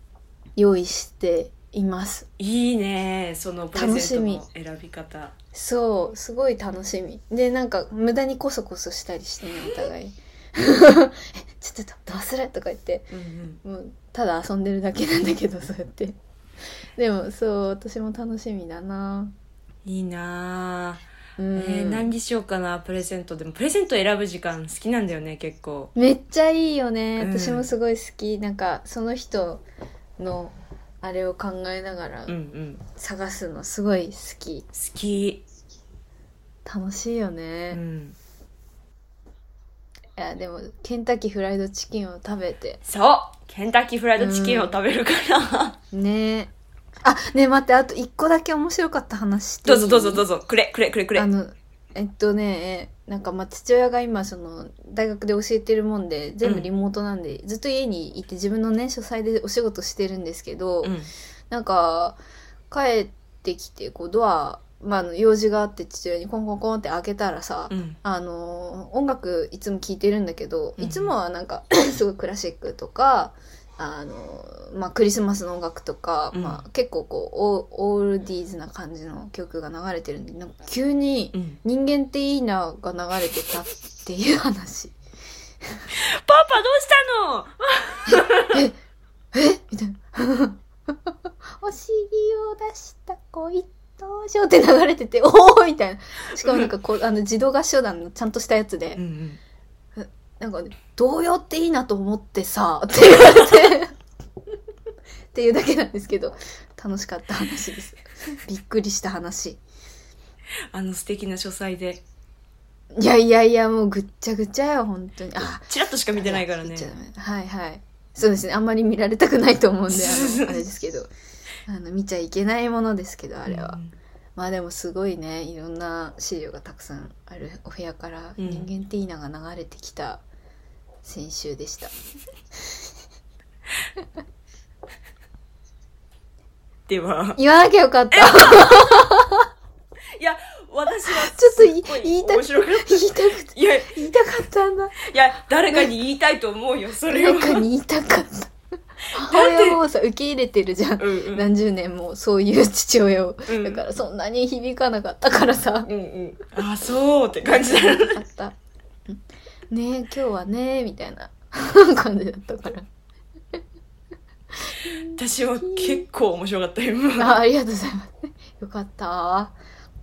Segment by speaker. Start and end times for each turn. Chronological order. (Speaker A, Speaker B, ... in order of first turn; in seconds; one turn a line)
Speaker A: 0.6-2.3
Speaker B: 2.4-5.3
Speaker A: 3.7-4.4
Speaker A: 5.5-13.1
Speaker B: 13.1-13.6
Speaker A: 13.6-16.2
Speaker A: 16.9-19.3
Speaker B: 19.8-25.9
Speaker A: 21.4-22.1
Speaker A: 25.9-29.6
Speaker B: 27.2-27.7
Speaker A: 30.2-32.3
Speaker B: 32.3-32.8
Speaker A: 32.9-34.7
Speaker B: 34.7-35.4
Speaker A: 36.6-37.8
Speaker B: 37.7-38.1
Speaker A: 40.1-42.8
Speaker B: 42.8-45.8
Speaker A: 44.2-44.8
Speaker A: 45.9-50.2
Speaker B: 49.6-51.3
Speaker A: 51.1-61.0
Speaker B: 56.4-56.7
Speaker B: 60.8-61.1
Speaker A: 61.5-62.2
Speaker A: 62.7-85.0
Speaker B: 67.7-68.0
Speaker B: 70.8-71.2
Speaker B: 76.3-76.6
Speaker B: 81.3-81.6
Speaker B: 85.9-88.6
Speaker A: 88.1-88.7
Speaker A: 89.3-99.0
Speaker B: 99.0-99.4
Speaker A: 100.0-103.9
Speaker A: 105.3-109.6
Speaker B: 110.7-112.0
Speaker A: 112.9-121.1
Speaker B: 115.4-116.9
Speaker B: 119.9-120.6
Speaker A: 121.7-123.8
Speaker B: 123.5-123.9
Speaker A: 124.3-130.2
Speaker B: 128.4-128.7
Speaker A: 131.0-131.9
Speaker B: 136.9-137.4
Speaker A: 137.4-139.4
Speaker B: 138.1-139.1
Speaker B: 140.2-143.9
Speaker A: 141.1-145.0
Speaker B: 145.0-147.6
Speaker A: 147.1-148.5
Speaker B: 149.1-149.8
Speaker A: 149.1-155.9
Speaker B: 151.0-151.5
Speaker B: 153.4-153.8
Speaker B: 155.8-158.2
Speaker A: 157.4-162.9
Speaker A: 164.7-165.1
Speaker B: 164.8-167.4
Speaker A: 165.7-166.0
Speaker A: 167.2-169.6